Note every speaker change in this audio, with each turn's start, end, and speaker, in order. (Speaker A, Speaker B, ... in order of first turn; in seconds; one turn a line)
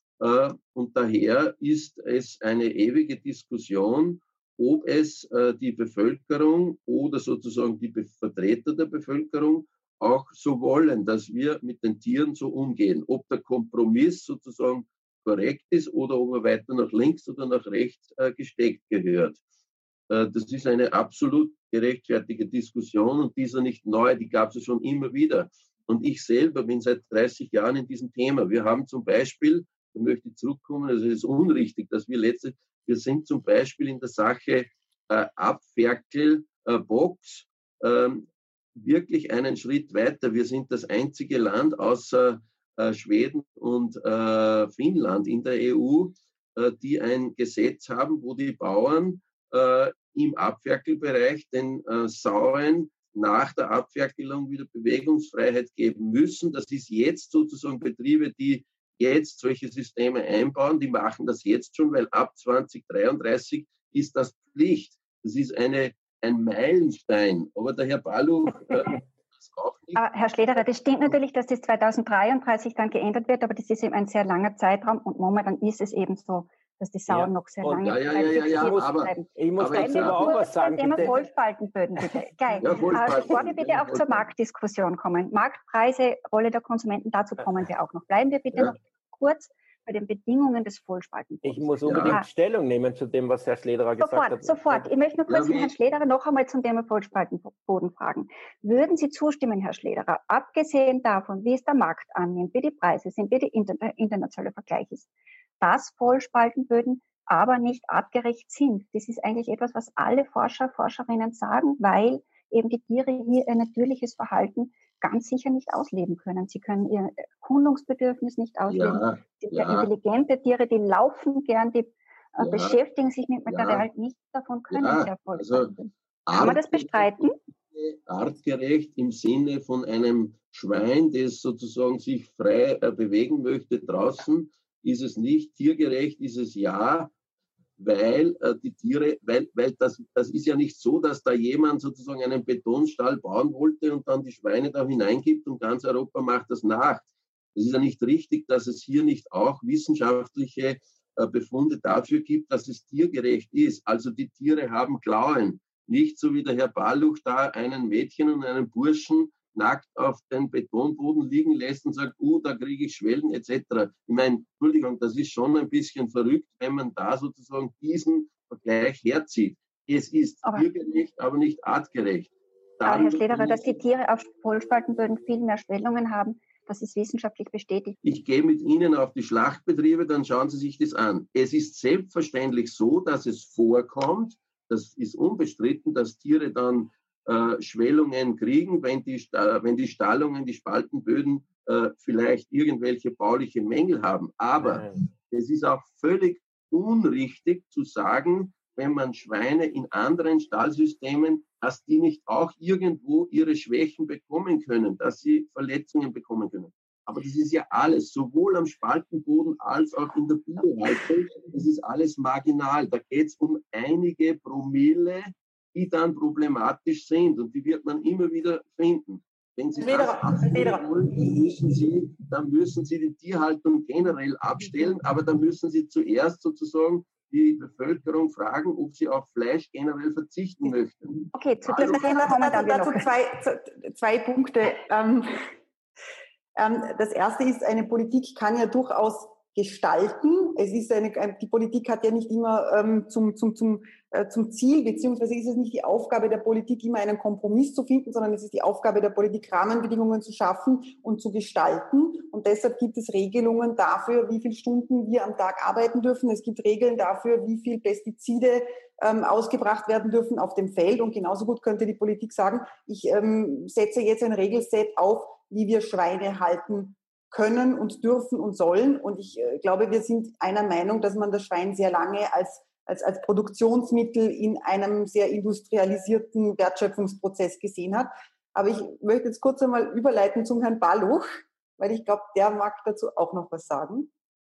Speaker A: 0.2-19.4
Speaker A: 20.1-71.2
Speaker B: 70.0-92.3
Speaker C: 77.1-81.2
Speaker A: 77.8-80.4
Speaker A: 82.6-84.3
Speaker C: 91.4-94.9
Speaker A: 91.8-92.2
Speaker B: 94.0-105.1
Speaker A: 95.3-95.7
Speaker B: 105.6-127.3
Speaker A: 118.7-119.9
Speaker A: 122.4-122.8
Speaker A: 123.5-123.9
Speaker A: 124.7-125.7
Speaker A: 126.3-137.1
Speaker A: 137.8-173.7
Speaker B: 172.8-178.0
Speaker A: 178.0-232.1
Speaker C: 194.6-194.9
Speaker D: 219.8-221.4
Speaker B: 231.3-233.1
Speaker D: 231.8-235.4
Speaker D: 236.6-284.1